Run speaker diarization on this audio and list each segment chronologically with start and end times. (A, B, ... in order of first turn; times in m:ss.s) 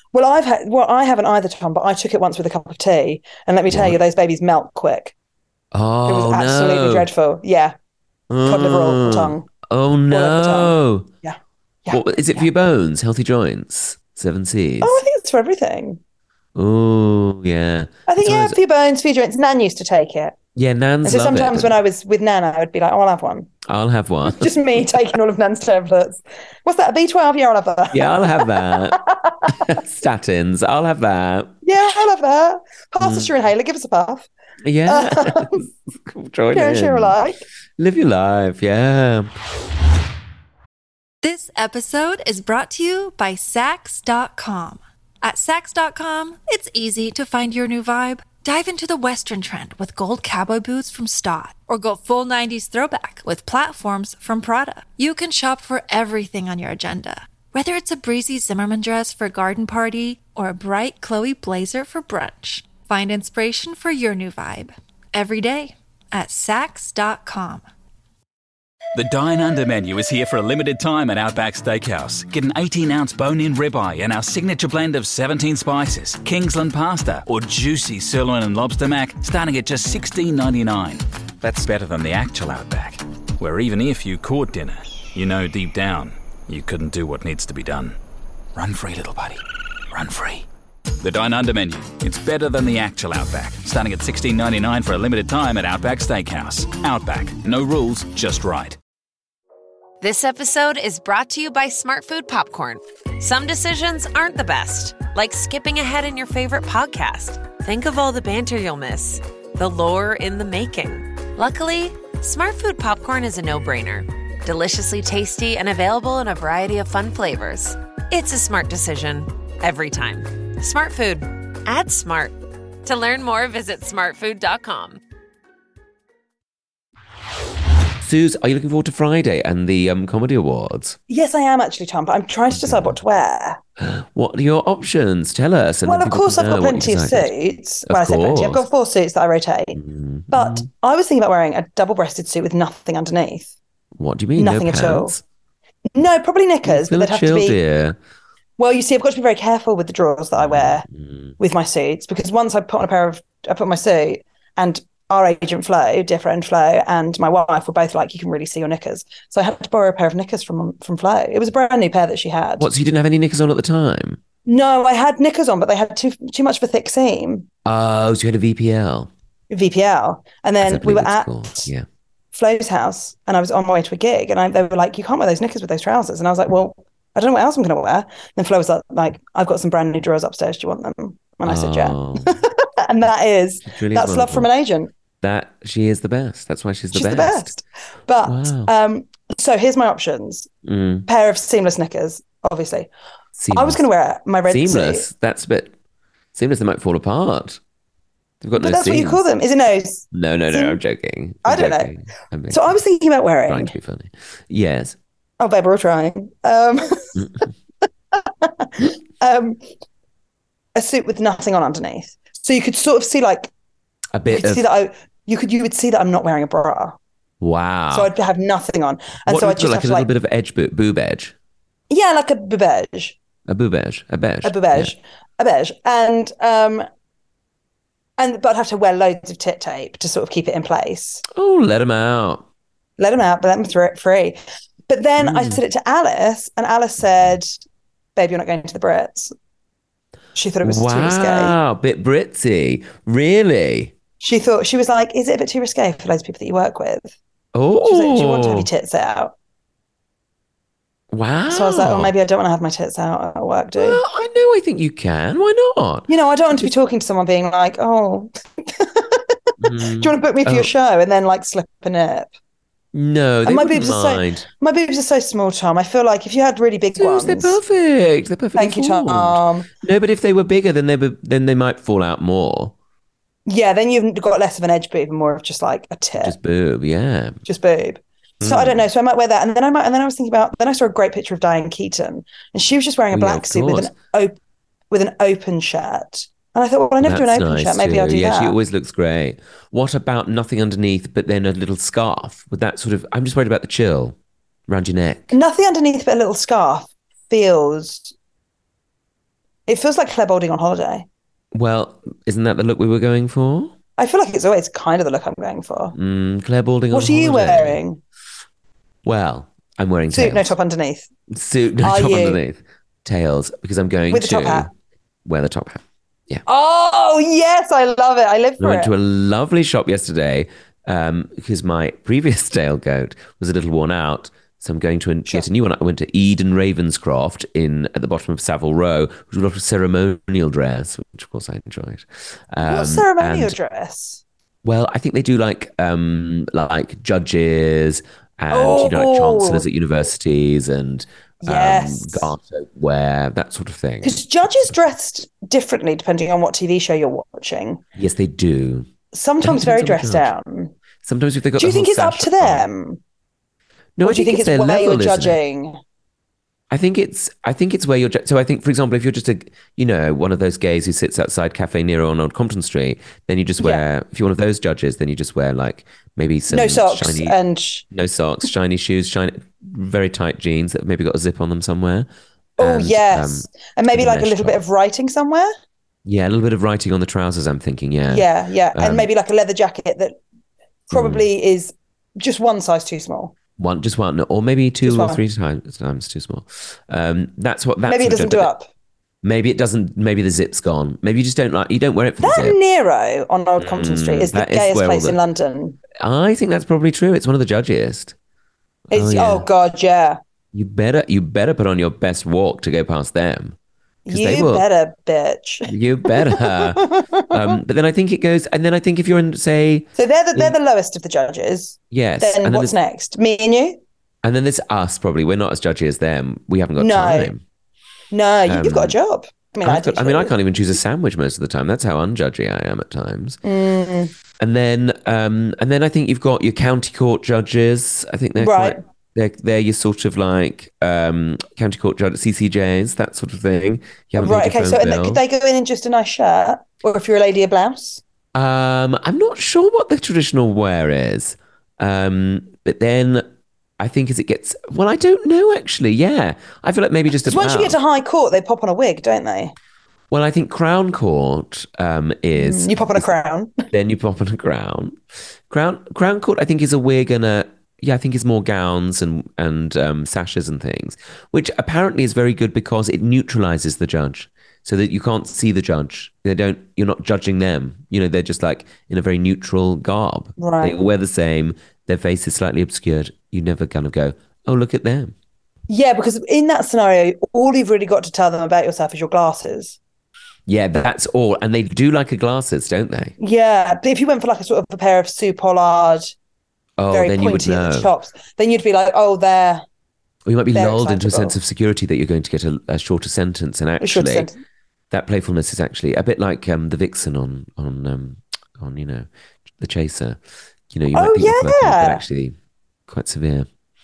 0:00.1-0:05.1 A
0:03.7-0:04.0 B
0:05.7-0:07.1 B
0:06.1-0:07.8 A
0:08.3-0:11.1 B
0:08.4-0:09.5 A
0:10.1-0:12.5 A
0:11.9-0:15.0 B
0:14.8-0:16.0 A
0:16.6-0:18.6 B
0:18.1-0:20.4 A
0:20.6-0:21.8 B
0:21.0-0:23.5 A
0:23.7-0:25.0 B
0:24.3-0:29.7 A
0:27.9-0:31.5 B
0:31.6-0:34.3 A
0:33.0-0:33.3 B
0:34.6-0:37.2 B
0:34.9-0:35.6 A
0:36.5-0:37.4 A
0:37.8-0:39.3 B
0:41.2-1:07.6 C
1:09.0-1:28.0 D
1:28.6-1:30.5 D
1:31.0-1:38.8 D
1:40.0-2:05.0 E
2:08.0-2:11.0 B
2:11.1-2:13.6 A
2:12.5-2:13.0 B
2:13.8-2:17.3 B
2:15.8-2:19.8 A
2:17.9-2:18.7 B
2:19.8-2:20.7 B
2:20.3-2:23.5 A
2:24.0-2:25.2 B
2:24.4-2:25.2 A
2:25.9-2:27.6 A
2:26.6-2:28.0 B
2:28.6-2:30.9 A
2:30.4-2:31.4 B
2:31.4-2:42.7 A
2:42.6-2:44.2 B
2:44.5-2:47.5 A
2:47.6-2:49.1 B
2:49.5-2:51.7 A
2:50.6-2:51.9 B
2:52.3-3:04.9 A
3:01.4-3:02.4 B
3:03.6-3:04.5 B
3:05.2-3:07.6 B
3:06.9-3:10.5 A
3:08.2-3:08.7 B
3:10.6-3:11.1 B
3:11.1-3:12.9 A
3:13.4-3:13.8 B
3:13.5-3:15.1 A
3:14.5-3:15.7 B
3:16.4-3:17.6 B
3:18.4-3:19.2 B
3:18.6-3:20.8 A
3:20.1-3:22.8 B
3:21.4-3:21.9 A
3:22.5-3:23.7 A
3:23.5-3:25.0 B
3:25.4-3:27.3 A
3:28.2-3:29.6 A
3:30.8-3:33.5 A
3:34.2-3:34.6 B
3:34.3-3:37.0 A
3:37.4-3:38.1 B
3:37.9-3:40.1 A
3:39.3-3:41.3 B
3:41.9-3:43.2 A
3:43.5-3:44.9 B
3:44.4-3:46.9 A
3:48.2-3:51.2 A
3:51.3-3:52.4 B
3:53.0-3:57.6 A
3:55.2-3:55.6 B
3:58.2-3:59.3 A
4:00.4-4:01.6 A
4:00.6-4:03.9 B
4:04.2-4:07.2 A
4:07.5-4:08.7 B
4:07.8-4:09.4 A
4:11.1-4:12.1 B
4:11.5-4:14.0 A
4:13.8-4:16.7 B
4:16.1-4:22.3 A
4:19.6-4:20.7 B
4:22.9-4:24.5 B
4:23.4-4:27.6 A
4:27.0-4:32.7 B
4:28.6-4:29.7 A
4:33.5-4:36.4 A
4:36.2-4:37.4 B
4:37.5-4:44.4 A
4:38.4-4:38.8 B
4:43.1-4:43.9 B
4:44.9-4:48.6 A
4:47.0-4:54.2 B
4:54.7-4:55.4 B
4:55.3-4:58.1 A
4:59.7-5:01.1 A
5:01.5-5:03.7 B
5:04.0-5:06.0 A
5:06.0-5:07.8 B
5:06.9-5:08.0 A
5:09.0-5:10.5 B
5:10.1-5:11.1 A
5:11.3-5:14.7 B
5:11.8-5:12.4 A
5:14.1-5:14.7 A
5:15.2-5:16.4 B
5:16.5-5:18.9 A
5:18.6-5:33.6 B
5:32.6-5:34.2 A
5:34.6-5:44.7 B
5:38.5-5:39.7 A
5:41.4-5:42.3 A
5:44.0-5:47.8 A
5:48.0-5:48.9 B
5:49.1-5:50.7 A
5:49.4-5:50.3 B
5:51.0-5:52.7 B
5:51.6-5:53.0 A
5:54.0-5:55.4 B
5:54.0-5:55.8 A
5:56.7-6:07.4 B
6:03.6-6:03.8 A
6:06.5-6:07.8 A
6:07.9-6:12.1 B
6:12.6-6:15.5 A
6:12.6-6:14.6 B
6:16.0-6:19.1 B
6:18.1-6:20.2 A
6:20.9-6:23.4 A
6:20.9-6:21.3 B
6:23.6-6:28.5 B
6:24.8-6:25.2 A
6:27.9-6:28.7 A
6:29.2-6:32.6 B
6:32.2-6:35.8 A
6:33.6-6:35.2 B
6:36.0-6:38.2 B
6:38.9-6:39.5 B
6:38.9-6:40.2 A
6:40.5-6:43.6 B
6:44.1-6:47.6 A
6:44.1-6:44.7 B
6:45.7-6:50.6 B
6:50.0-6:53.8 A
6:51.9-6:52.8 B
6:54.2-6:57.4 B
6:56.8-6:57.3 A
6:58.1-7:00.4 A
6:58.5-6:59.0 B
6:59.6-7:03.4 B
7:03.4-7:04.1 A
7:04.4-7:15.2 B
7:08.4-7:08.8 A
7:14.2-7:18.0 A
7:18.3-7:23.3 B
7:23.8-7:27.8 B
7:27.2-7:29.5 A
7:30.1-7:33.1 B
7:32.4-7:33.6 A
7:33.7-7:35.0 B
7:35.5-7:55.1 B
7:50.4-7:50.8 A
7:55.7-7:59.8 A
8:00.5-8:03.2 B
8:03.2-8:06.1 A
8:06.8-8:07.9 B
8:06.9-8:09.6 A
8:10.3-8:14.3 B
8:10.5-8:11.4 A
8:13.8-8:14.4 A
8:14.9-8:20.2 B
8:20.7-8:22.4 B
8:20.9-8:22.0 A
8:22.9-8:23.5 B